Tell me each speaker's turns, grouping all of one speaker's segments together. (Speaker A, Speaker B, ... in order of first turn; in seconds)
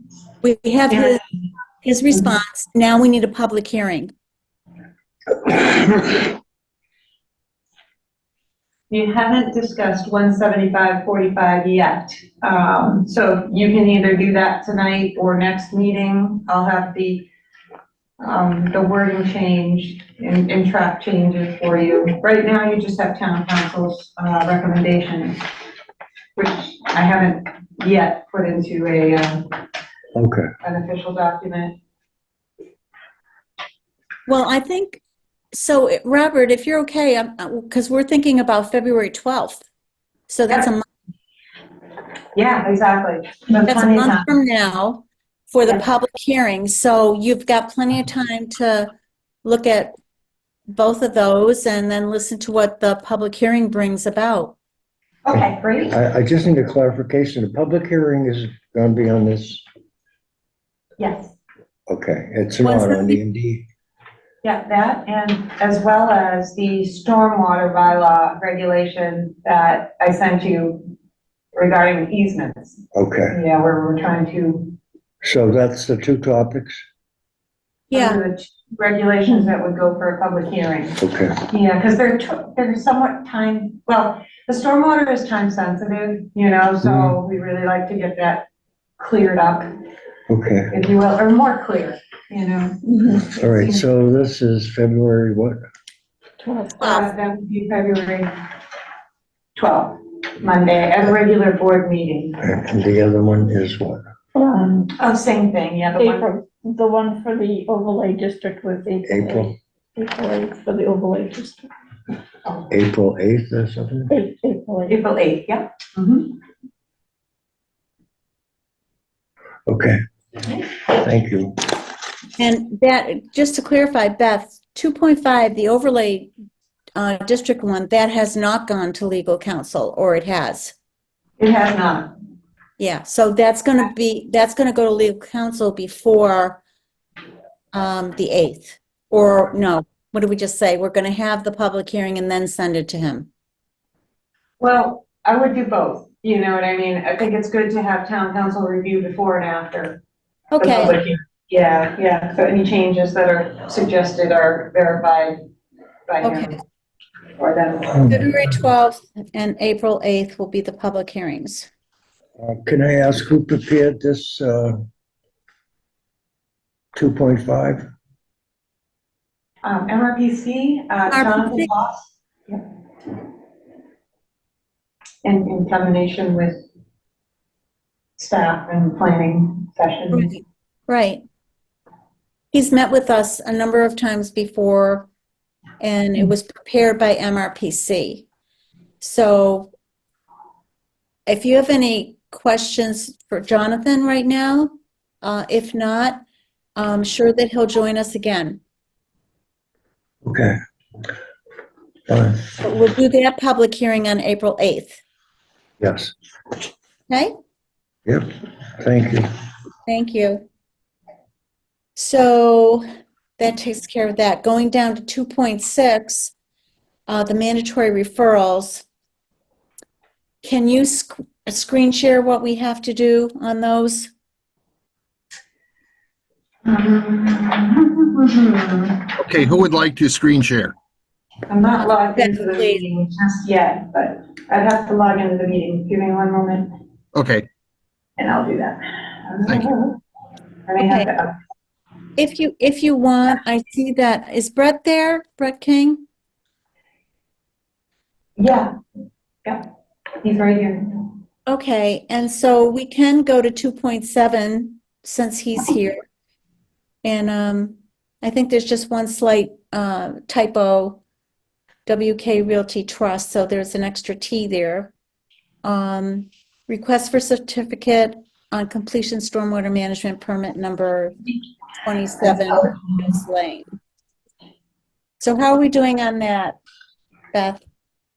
Speaker A: 0.4-1.2, 1.8-4.1, 34.3-35.0, 35.5-39.6, 40.3-40.8, 43.6-48.9, 49.4-49.9, 50.7-54.6, 62.6-63.2, 77.9-78.2, 96.8-97.1, 122.4-126.3, 127.0-130.7, 132.8-136.6, 137.7-143.3, 150.5-151.0, 156.2-156.6, 158.1-161.7, 171.1-171.7, 180.1-181.2, 182.5-185.1, 185.8-188.3, 189.0-189.7, 191.3-196.2, 196.8-198.6, 202.6-205.0, 209.9-210.4, 212.0-212.8, 213.4-216.3, 217.1-218.8, 220.4-224.1, 231.8-232.8, 240.8-241.1, 242.2-246.0, 251.5-256.0, 257.0-261.0, 261.9-264.9, 265.6-271.1, 271.8-273.6, 275.2-276.6, 277.3-277.6
Speaker B: 5.7-6.2, 30.1-30.5, 55.3-59.6, 61.9-63.6, 72.9-73.3, 75.2-76.8, 81.0-81.4, 86.8-87.2, 90.3-90.7, 93.3-95.6, 102.4-104.0, 109.1-109.5, 112.7-114.1, 119.7-120.0, 120.9-121.7, 157.9-158.3, 162.4-164.8, 166.9-167.8, 200.2-200.6, 202.1-202.5, 205.8-206.1, 208.8-209.3
Speaker C: 8.9-17.3, 18.2-25.4, 26.4-29.4, 30.6-31.7, 42.4-44.3, 55.3-55.9, 61.0-61.3, 64.4-70.8, 71.5-74.8, 77.9-88.5, 89.0-89.7, 90.7-92.8, 93.5-93.8, 96.8-98.3, 99.6-102.4, 105.0-106.3, 114.9-116.4, 131.4-132.1, 144.6-150.0, 150.6-155.4, 156.1-156.6, 157.4-158.0, 169.6-172.6, 175.2-176.5, 178.2-180.3, 226.7-229.1, 231.5-236.7, 238.2-240.0, 240.7-241.3, 248.4-248.7, 250.2-251.2
Speaker D: 92.9-93.3, 96.4-96.8, 104.3-104.9, 106.0-111.7, 114.1-115.0
Speaker E: 229.2-230.8, 237.1-237.5, 239.5-239.7